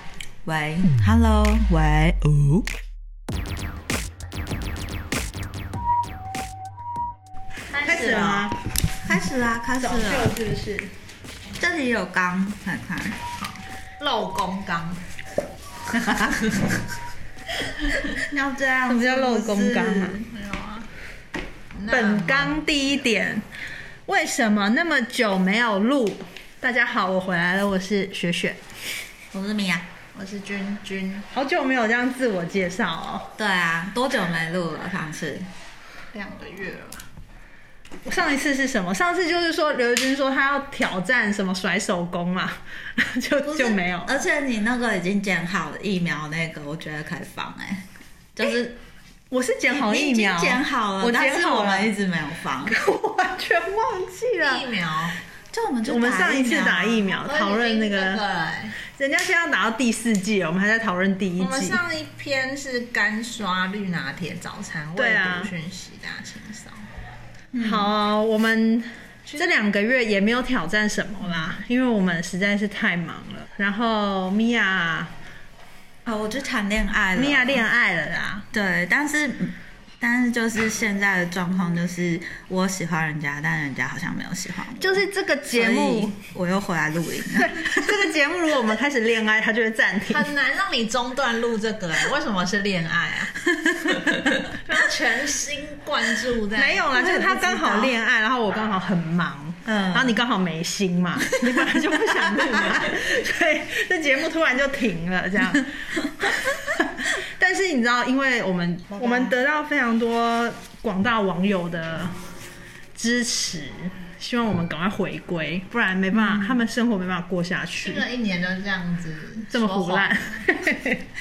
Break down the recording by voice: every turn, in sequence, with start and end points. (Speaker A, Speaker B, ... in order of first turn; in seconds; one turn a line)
Speaker A: 0.4-2.3
Speaker B: 7.8-8.6
Speaker A: 7.8-10.3
Speaker C: 8.0-8.3
Speaker B: 9.8-10.9
Speaker A: 11.6-13.2
Speaker C: 13.4-15.0
Speaker C: 16.1-16.6
Speaker A: 18.1-20.2
Speaker B: 18.9-20.2
Speaker C: 20.3-20.9
Speaker C: 21.8-22.6
Speaker B: 21.9-23.5
Speaker B: 24.1-28.6
Speaker A: 29.3-29.9
Speaker C: 30.1-31.3
Speaker B: 31.3-33.3
Speaker A: 33.4-35.5
Speaker C: 36.1-37.0
Speaker B: 38.0-44.2
Speaker A: 43.5-48.8
Speaker B: 49.3-51.9
Speaker A: 49.7-52.8
Speaker B: 52.6-54.7
Speaker C: 54.4-55.2
Speaker A: 55.5-57.0
Speaker B: 55.8-58.2
Speaker C: 57.1-58.8
Speaker B: 58.8-61.8
Speaker C: 61.4-66.9
Speaker B: 65.0-65.5
Speaker A: 67.5-67.9
Speaker B: 67.6-75.1
Speaker A: 76.1-77.6
Speaker B: 77.1-78.5
Speaker A: 78.5-87.9
Speaker B: 84.8-86.2
Speaker B: 87.4-90.3
Speaker C: 90.1-97.0
Speaker B: 96.5-112.2
Speaker A: 97.0-97.9
Speaker A: 99.6-100.2
Speaker C: 109.0-109.3
Speaker B: 113.0-118.1
Speaker A: 116.2-116.6
Speaker C: 117.8-120.5
Speaker B: 119.5-121.0